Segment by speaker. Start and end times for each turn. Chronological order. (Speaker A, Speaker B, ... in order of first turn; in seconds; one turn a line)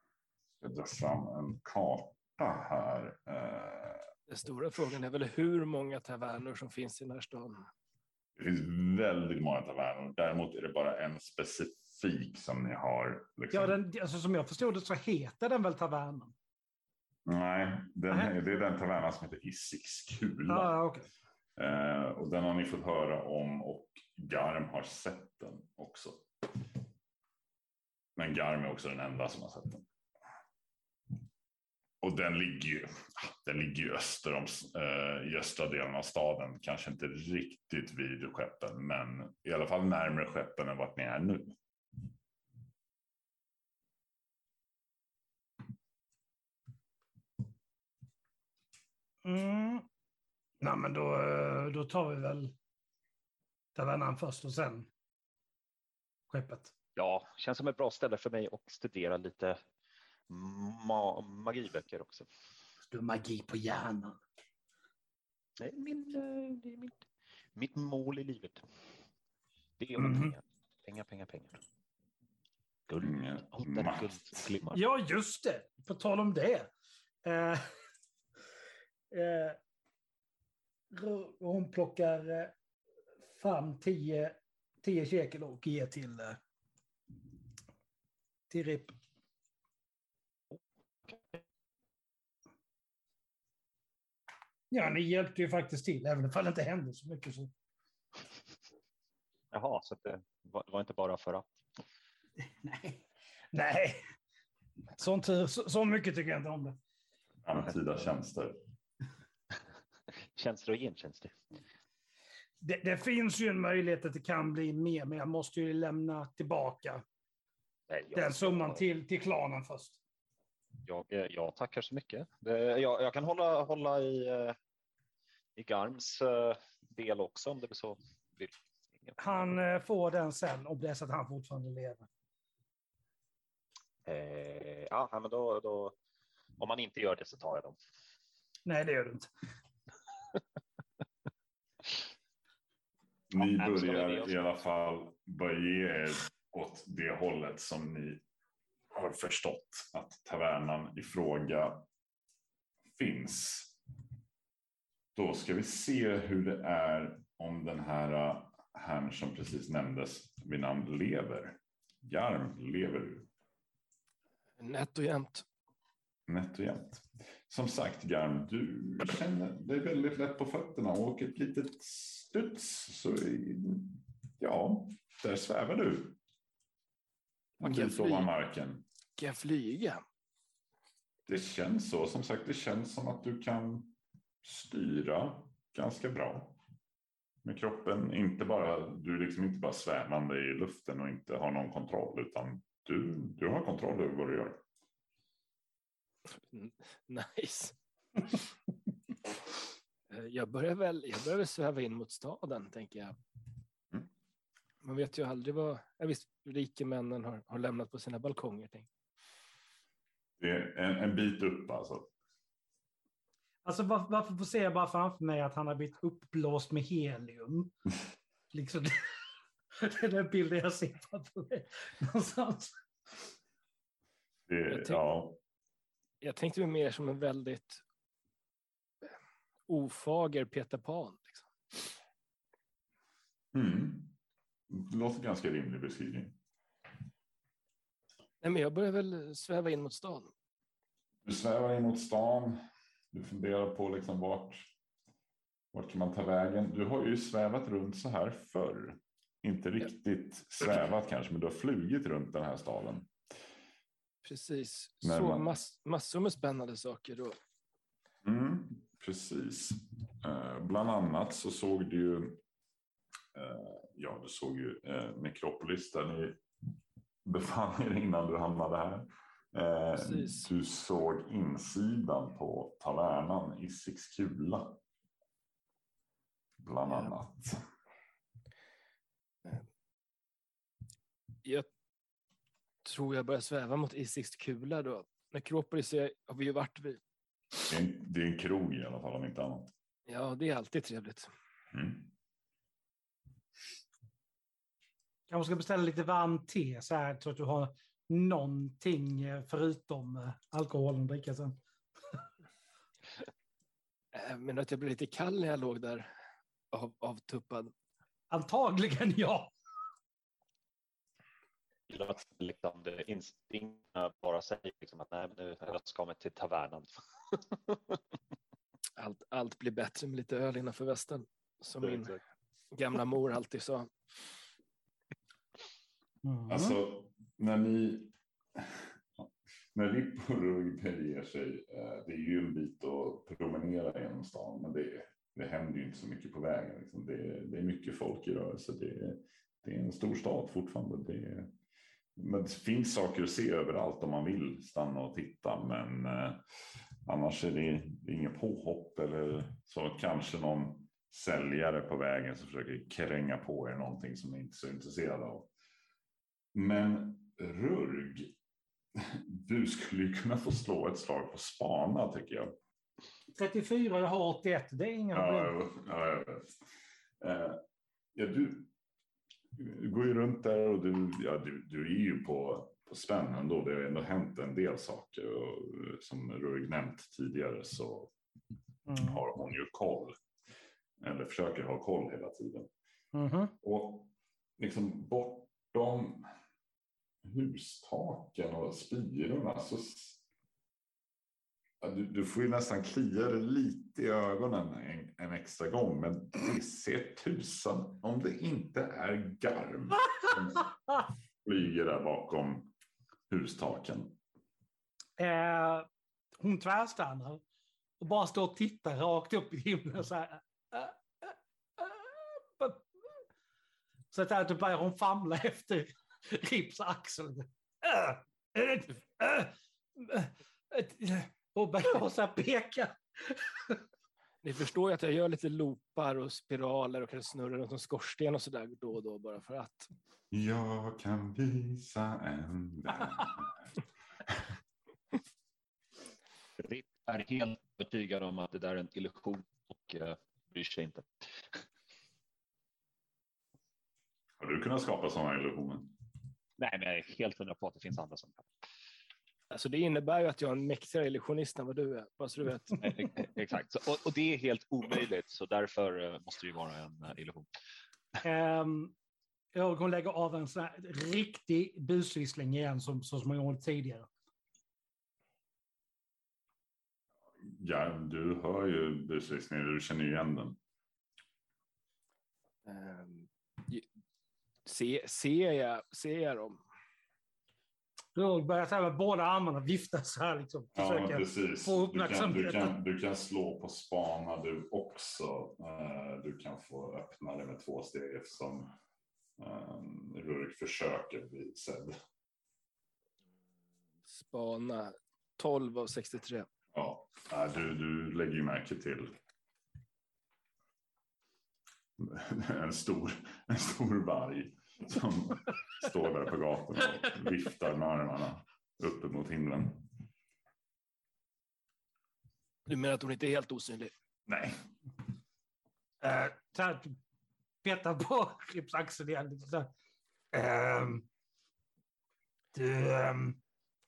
Speaker A: 0.6-4.1
Speaker B: 4.3-7.7
Speaker A: 8.3-13.8
Speaker C: 13.5-16.3
Speaker A: 17.2-20.7
Speaker C: 20.5-21.1
Speaker A: 21.6-26.5
Speaker A: 28.1-29.9
Speaker A: 32.0-41.5
Speaker C: 49.2-49.9
Speaker C: 50.6-52.5
Speaker C: 53.7-54.9
Speaker C: 56.3-56.7
Speaker D: 57.0-59.6
Speaker D: 60.3-62.3
Speaker C: 62.9-64.2
Speaker D: 65.6-67.0
Speaker D: 67.5-68.6
Speaker D: 69.8-71.6
Speaker C: 70.0-70.3
Speaker D: 72.9-74.8
Speaker A: 73.0-74.5
Speaker C: 74.7-76.7
Speaker C: 77.2-77.7
Speaker C: 79.1-79.6
Speaker C: 80.9-82.5
Speaker C: 83.3-86.4
Speaker C: 88.5-88.9
Speaker D: 90.5-91.4
Speaker C: 94.7-97.5
Speaker D: 99.5-101.6
Speaker C: 102.6-103.0
Speaker C: 103.5-104.0
Speaker C: 105.0-106.8
Speaker A: 107.4-108.6
Speaker D: 110.3-111.4
Speaker C: 112.6-117.0
Speaker D: 117.9-118.8
Speaker C: 118.1-120.0
Speaker D: 120.8-124.5
Speaker D: 125.5-129.4
Speaker C: 129.2-132.1
Speaker D: 134.1-135.9
Speaker D: 136.6-137.8
Speaker C: 138.7-139.3
Speaker A: 143.3-148.2
Speaker D: 143.3-144.6
Speaker A: 148.9-151.8
Speaker A: 152.9-153.8
Speaker A: 155.1-163.3
Speaker B: 164.6-165.4
Speaker A: 166.3-176.2
Speaker B: 177.6-178.3
Speaker A: 177.6-178.8
Speaker B: 179.2-180.0
Speaker A: 181.3-186.6
Speaker A: 187.4-194.6
Speaker B: 196.4-198.4
Speaker B: 200.1-203.2
Speaker B: 204.8-208.9
Speaker A: 210.4-212.1
Speaker C: 213.6-217.7
Speaker C: 218.5-219.2
Speaker C: 219.8-222.8
Speaker A: 224.5-225.4
Speaker B: 224.7-225.0
Speaker B: 226.2-227.8
Speaker B: 229.7-231.9
Speaker A: 233.5-234.1
Speaker A: 234.7-236.4
Speaker B: 238.4-240.3
Speaker A: 241.2-242.6
Speaker A: 243.1-244.7
Speaker A: 245.7-253.1
Speaker B: 254.2-257.4
Speaker A: 255.0-255.5
Speaker A: 258.2-262.4
Speaker A: 263.3-266.4
Speaker A: 267.2-274.8
Speaker B: 270.0-270.5
Speaker A: 276.6-277.6
Speaker B: 276.9-277.1
Speaker B: 282.8-287.0
Speaker A: 287.7-289.7
Speaker B: 290.1-291.3
Speaker A: 291.7-292.1
Speaker C: 295.3-301.6
Speaker B: 304.1-306.1
Speaker B: 306.7-307.7
Speaker C: 308.3-309.5
Speaker D: 311.9-318.0
Speaker B: 319.0-322.1
Speaker D: 321.8-322.2
Speaker B: 322.7-323.9
Speaker C: 326.2-326.8
Speaker A: 326.5-341.5
Speaker A: 342.1-346.4
Speaker A: 347.1-355.5
Speaker A: 356.5-358.3
Speaker A: 358.9-362.5
Speaker C: 363.3-365.5
Speaker A: 365.1-366.5
Speaker A: 367.2-367.6
Speaker A: 368.1-368.7
Speaker A: 369.5-378.1
Speaker C: 378.9-379.2
Speaker A: 378.9-380.2
Speaker A: 381.0-382.7
Speaker C: 383.1-383.6
Speaker A: 383.6-386.3
Speaker A: 387.2-390.2
Speaker A: 391.8-400.7
Speaker A: 401.4-402.7
Speaker A: 403.3-404.2
Speaker C: 405.2-405.9
Speaker C: 406.4-407.4
Speaker C: 408.0-412.9
Speaker C: 414.1-423.8
Speaker B: 424.4-429.9
Speaker A: 430.3-433.7
Speaker D: 436.6-441.6
Speaker A: 444.4-445.9
Speaker D: 446.6-448.5
Speaker B: 449.5-453.2
Speaker D: 452.8-457.5
Speaker C: 458.2-458.9
Speaker C: 459.5-464.1
Speaker A: 467.4-470.6
Speaker B: 472.6-473.9
Speaker B: 474.6-476.6
Speaker C: 478.1-482.8
Speaker A: 480.7-488.7
Speaker A: 489.4-492.0
Speaker B: 494.1-496.5
Speaker A: 496.7-499.1
Speaker A: 502.0-509.9
Speaker B: 512.7-513.9
Speaker A: 514.3-514.6
Speaker C: 516.0-517.0
Speaker C: 517.6-519.7
Speaker C: 520.3-521.0
Speaker C: 522.5-523.4